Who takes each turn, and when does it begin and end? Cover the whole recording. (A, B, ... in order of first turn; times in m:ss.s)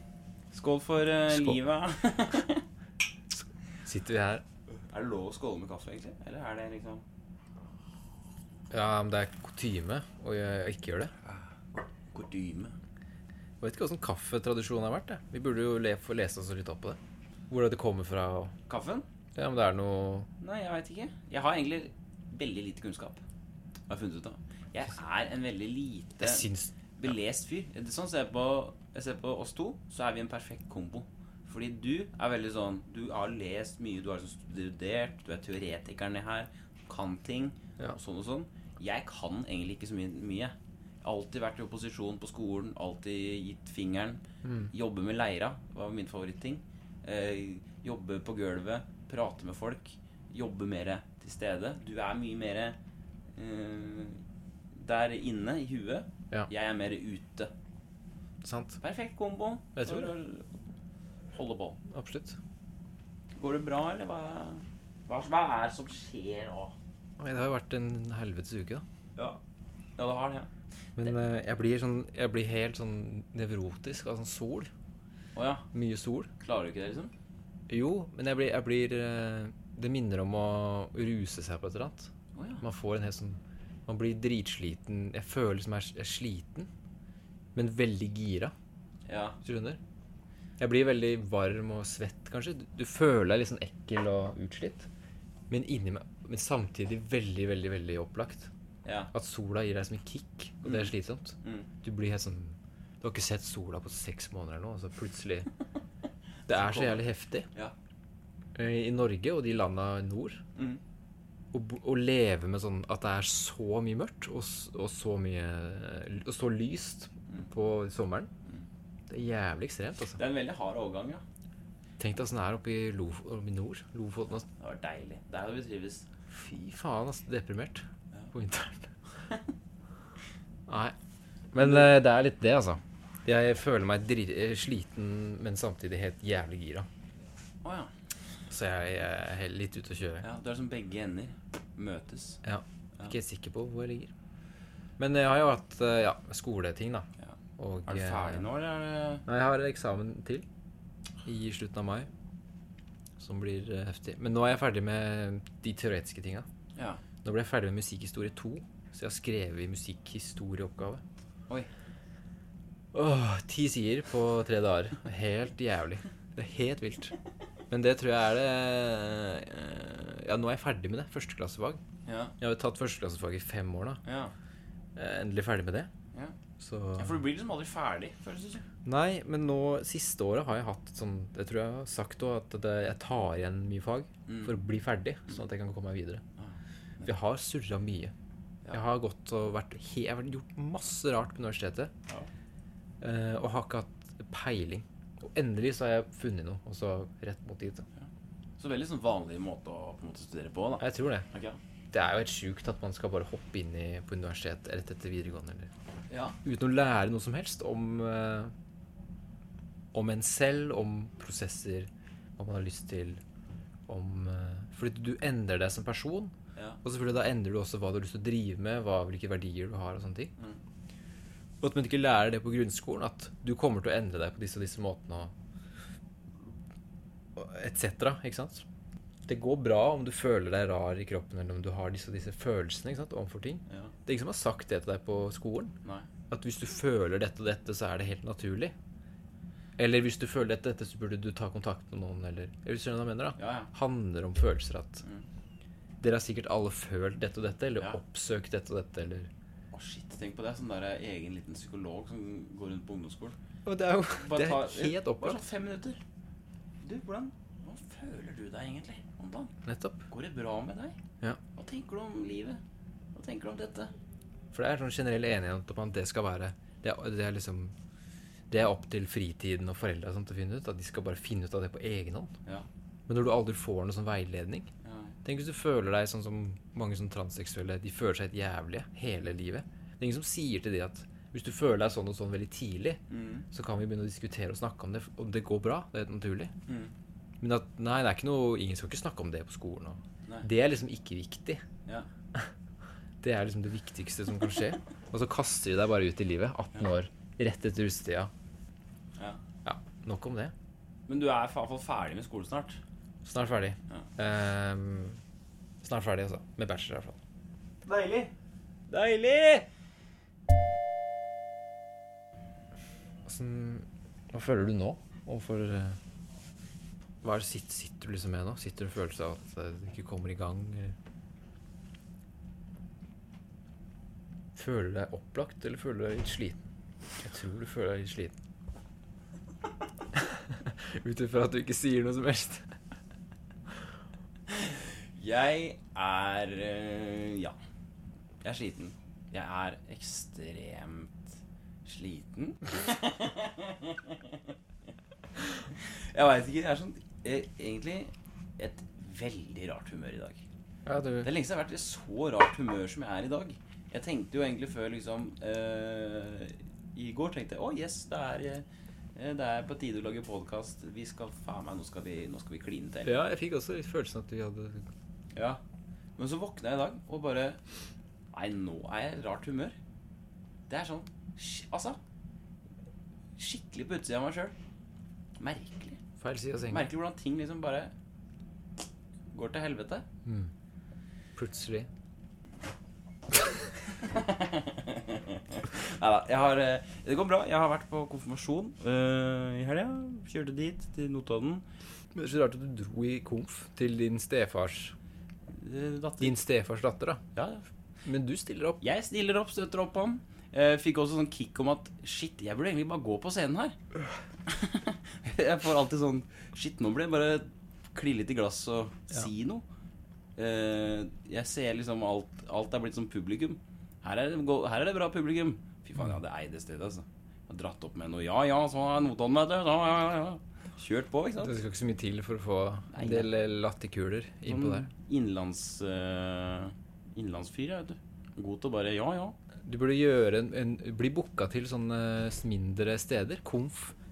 0:00.5-0:02.6 A
0:01.3-0:01.6 B
0:03.8-0:04.4 B
0:04.9-0:07.0 A
0:08.7-0:11.1 B
0:11.3-0:12.7 A
0:13.6-0:17.0 B
0:17.5-0:18.5 B
0:18.7-0:19.0 A
0:19.3-0:20.3 B
0:20.4-0:23.2 A
0:23.9-0:52.8 A
0:26.2-0:26.7 B
0:44.4-0:44.7 B
0:53.4-0:54.2 A
0:54.8-0:57.5 A
0:58.4-0:58.8 B
0:58.8-1:00.5 A
0:59.8-1:00.1 B
1:01.3-1:01.8 A
1:01.9-1:02.4 B
1:03.4-1:06.8 A
1:07.2-1:08.8 B
1:10.0-1:10.5 A
1:11.0-1:14.7 B
1:15.4-1:15.6 A
1:15.7-1:16.3 B
1:16.4-1:17.1 A
1:17.7-1:26.7 B
1:22.3-1:22.6 A
1:27.5-1:28.5 B
1:29.1-1:29.4 A
1:29.4-1:29.8 B
1:30.6-1:34.9 B
1:35.5-1:38.5 B
1:38.8-1:39.1 A
1:39.1-1:45.5 B
1:40.6-1:41.7 A
1:46.5-1:47.5 B
1:46.5-1:47.7 A
1:48.5-1:50.4 B
1:50.6-1:50.8 A
1:51.5-1:58.3 B
1:59.1-2:00.2 B
2:00.2-2:01.2 A
2:02.0-2:04.5 B
2:04.6-2:06.0 A
2:06.3-2:08.9 B
2:10.7-2:10.9 B
2:11.5-2:16.9 B
2:11.6-2:11.8 A
2:17.6-2:17.9 A
2:18.5-2:20.3 B
2:20.2-2:22.4 A
2:22.4-2:24.1 B
2:25.0-2:28.4 B
2:27.2-2:29.2 A
2:29.3-2:30.4 B
2:31.2-2:32.1 B
2:33.2-2:36.5 B
2:36.8-2:37.0 A
2:37.2-2:41.0 B
2:42.9-2:47.1 B
2:47.7-2:51.8 B
2:52.0-2:52.3 A
2:52.4-2:54.0 B
2:54.0-2:54.3 A
2:54.9-2:55.9 B
2:56.6-2:57.2 B
2:57.0-2:58.6 A
2:58.8-3:06.2 B
3:04.3-3:04.6 A
3:06.4-3:07.1 A
3:07.0-3:08.1 B
3:08.7-3:11.9 B
3:13.0-3:17.8 B
3:18.6-3:21.6 A
3:20.8-3:21.3 B
3:21.9-3:25.7 B
3:26.1-3:26.3 A
3:26.4-3:28.5 B
3:29.9-3:33.2 B
3:33.9-3:40.3 B
3:41.6-3:45.3 B
3:47.4-3:48.6 B
3:49.2-3:55.7 B
3:53.7-3:53.9 A
3:56.3-3:58.7 B
3:59.8-4:05.0 B
4:03.4-4:03.7 A
4:06.0-4:09.3 B
4:09.7-4:13.4 A
4:13.6-4:15.4 B
4:14.1-4:16.0 A
4:16.8-4:19.5 A
4:19.6-4:20.0 B
4:20.1-4:21.0 A
4:21.6-4:22.6 A
4:23.1-4:23.9 A
4:24.5-4:27.7 B
4:28.5-4:32.3 B
4:33.1-4:34.7 B
4:34.8-4:35.1 A
4:35.2-4:46.5 B
4:43.1-4:43.4 A
4:46.7-4:46.9 A
4:47.4-4:51.6 B
4:53.2-4:58.3 B
4:59.6-5:00.5 B
5:01.1-5:02.8 A
5:03.2-5:05.2 B
5:05.8-5:07.2 B
5:07.8-5:08.3 A
5:08.9-5:09.6 A
5:13.2-5:16.0 B
5:17.2-5:21.0 B
5:24.5-5:26.6 B
5:27.2-5:28.3 B
5:30.1-5:32.6 B
5:34.5-5:37.6 A
5:38.4-5:41.3 A
5:41.8-5:44.5 A
5:45.6-5:50.4 A
5:50.8-5:51.3 B
5:51.2-5:58.6 A
5:59.2-6:03.1 A
6:03.0-6:04.8 B
6:05.3-6:05.6 A
6:06.2-6:07.6 A
6:08.3-6:09.8 A
6:10.7-6:12.0 A
6:13.4-6:14.5 A
6:15.4-6:16.0 A
6:16.2-6:16.9 B
6:16.7-6:17.9 A
6:19.3-6:20.0 A
6:20.2-6:20.5 B
6:21.4-6:21.9 B
6:23.9-6:31.6 A
6:32.1-6:34.9 B
6:35.6-6:36.4 A
6:36.2-6:37.2 B
6:37.3-6:37.6 A
6:38.0-6:38.8 B
6:38.8-6:43.8 A
6:44.4-6:49.6 A
6:50.4-7:01.6 A
7:01.4-7:04.9 B
7:02.9-7:03.3 A
7:04.5-7:09.4 A
7:09.6-7:13.9 B